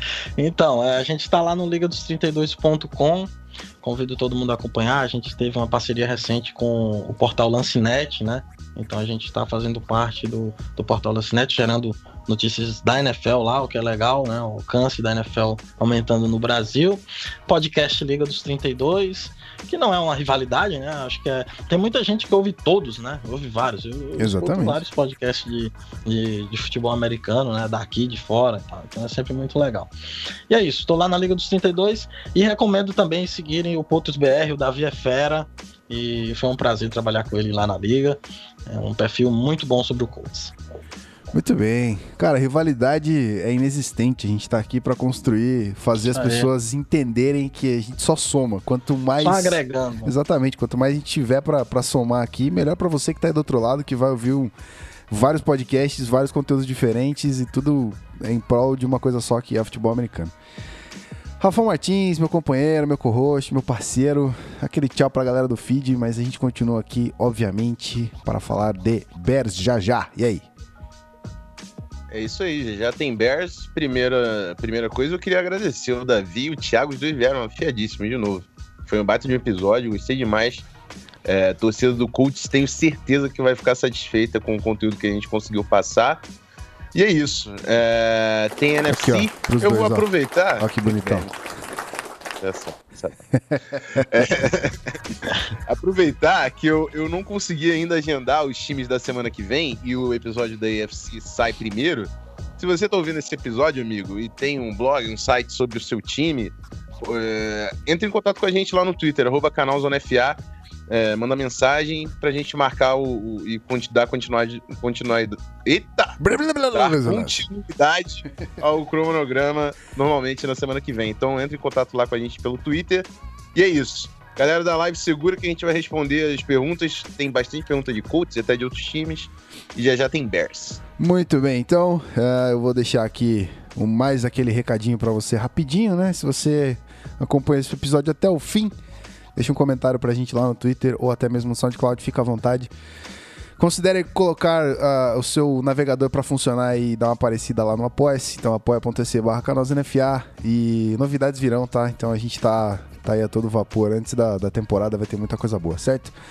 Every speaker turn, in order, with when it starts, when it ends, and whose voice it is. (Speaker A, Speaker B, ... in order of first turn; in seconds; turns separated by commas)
Speaker A: 0.4-3.3, Speaker A: 3.8-29.9, Speaker B: 24.2-24.8, Speaker A: 30.5-40.5, Speaker B: 41.3-54.5, Speaker A: 46.0-46.5, Speaker A: 49.2-50.1, Speaker B: 55.1-60.3, Speaker B: 61.4-70.5, Speaker C: 72.1-80.7, Speaker C: 81.2-86.2, Speaker C: 86.9-91.3, Speaker B: 88.9-90.0, Speaker B: 90.6-91.3, Speaker C: 92.4-93.1, Speaker B: 93.3-94.0, Speaker C: 93.9-116.2, Speaker B: 116.2-117.3, Speaker C: 116.7-130.8, Speaker B: 131.0-138.7, Speaker B: 139.3-142.7, Speaker B: 143.6-156.1